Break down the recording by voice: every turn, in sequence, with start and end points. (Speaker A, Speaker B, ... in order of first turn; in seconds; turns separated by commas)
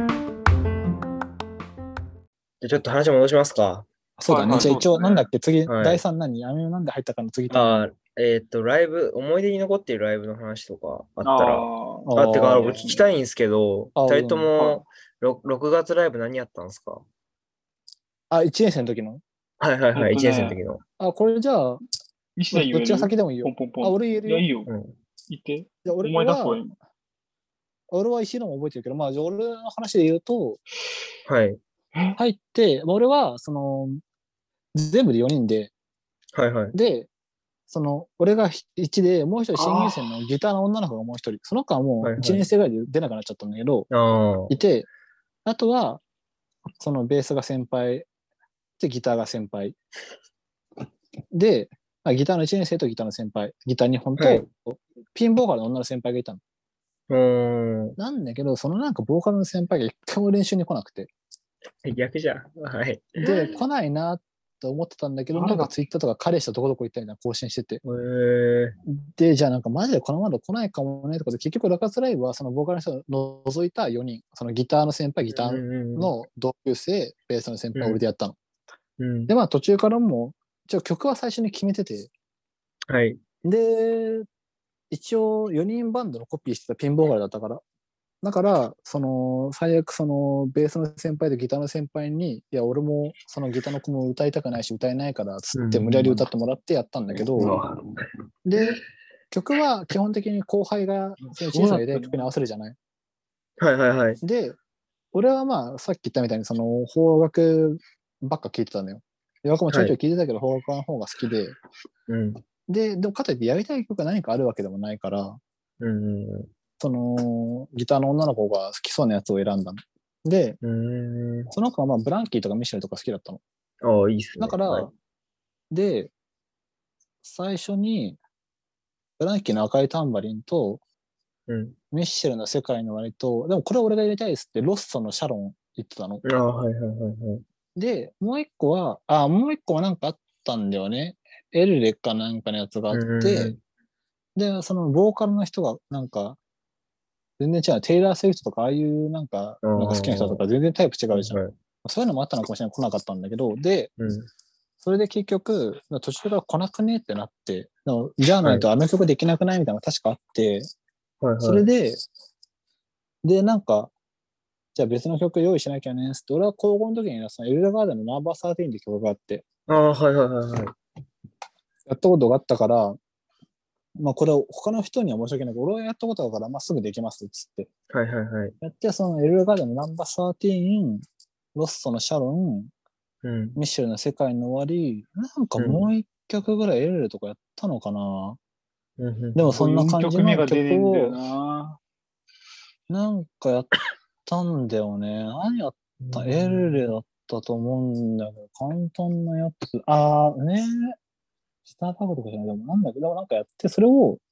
Speaker A: 2.6-3.9, Speaker B: 4.2-7.9, Speaker C: 4.2-5.3, Speaker A: 4.4-4.8, Speaker A: 5.7-6.0, Speaker A: 7.5-17.0, Speaker C: 11.2-13.0, Speaker B: 12.1-12.8, Speaker B: 13.9-14.5, Speaker C: 14.6-14.8, Speaker B: 18.3-19.2, Speaker A: 19.6-20.8, Speaker C: 19.9-20.6, Speaker B: 21.0-21.8, Speaker C: 22.4-24.7, Speaker B: 22.5-24.4, Speaker A: 24.7-24.9, Speaker C: 25.3-26.8, Speaker B: 25.8-26.6, Speaker B: 27.9-30.6, Speaker A: 31.2-31.6, Speaker B: 32.2-34.0, Speaker B: 34.7-35.7, Speaker A: 36.3-36.7, Speaker B: 36.7-37.1, Speaker B: 37.7-43.9, Speaker C: 39.5-40.1, Speaker A: 42.0-42.5, Speaker A: 43.9-44.5, Speaker B: 44.5-44.9, Speaker B: 45.5-46.0, Speaker B: 46.8-48.1, Speaker B: 48.8-49.8, Speaker B: 51.3-56.4, Speaker A: 54.2-54.5, Speaker A: 57.1-58.0, Speaker B: 58.0-61.1, Speaker A: 61.8-63.6, Speaker B: 63.2-67.8, Speaker C: 65.3-65.7, Speaker A: 67.8-68.8, Speaker B: 68.8-78.4, Speaker A: 75.3-76.1, Speaker A: 77.8-78.0, Speaker A: 79.0-79.3, Speaker B: 79.3-82.1, Speaker A: 82.9-83.2, Speaker B: 83.4-84.2, Speaker B: 84.9-87.6, Speaker B: 88.2-97.6, Speaker A: 95.5-96.2, Speaker A: 97.3-98.1, Speaker B: 98.4-98.8, Speaker B: 99.3-102.8, Speaker A: 101.3-102.1, Speaker A: 103.6-104.2, Speaker B: 104.2-104.6, Speaker B: 105.1-111.5, Speaker A: 112.1-112.4, Speaker B: 112.7-115.4, Speaker A: 115.8-116.5, Speaker B: 116.8-120.6, Speaker A: 120.6-121.5, Speaker B: 121.5-123.4, Speaker A: 123.8-124.9, Speaker B: 124.4-124.9, Speaker B: 125.7-126.1, Speaker B: 127.2-128.2, Speaker B: 129.2-130.8, Speaker A: 131.5-131.8, Speaker B: 131.9-136.2, Speaker A: 136.2-137.4, Speaker B: 137.8-143.5, Speaker A: 142.9-143.6, Speaker B: 144.3-146.4, Speaker B: 147.4-153.9, Speaker A: 149.6-150.4, Speaker A: 151.1-151.5, Speaker A: 154.0-154.3, Speaker B: 154.8-160.7, Speaker A: 161.2-161.6, Speaker B: 161.4-162.0, Speaker B: 163.2-163.9, Speaker B: 164.7-169.5, Speaker A: 169.7-170.7, Speaker B: 171.9-173.0, Speaker B: 174.0-177.7, Speaker A: 177.9-178.5, Speaker B: 178.6-181.0, Speaker B: 181.5-182.7, Speaker A: 183.2-183.6, Speaker B: 183.6-188.4, Speaker A: 185.6-185.9, Speaker A: 189.0-189.5, Speaker B: 189.3-191.3, Speaker C: 189.5-191.8, Speaker B: 192.9-193.7, Speaker B: 194.2-200.9, Speaker A: 196.0-196.8, Speaker B: 201.7-204.2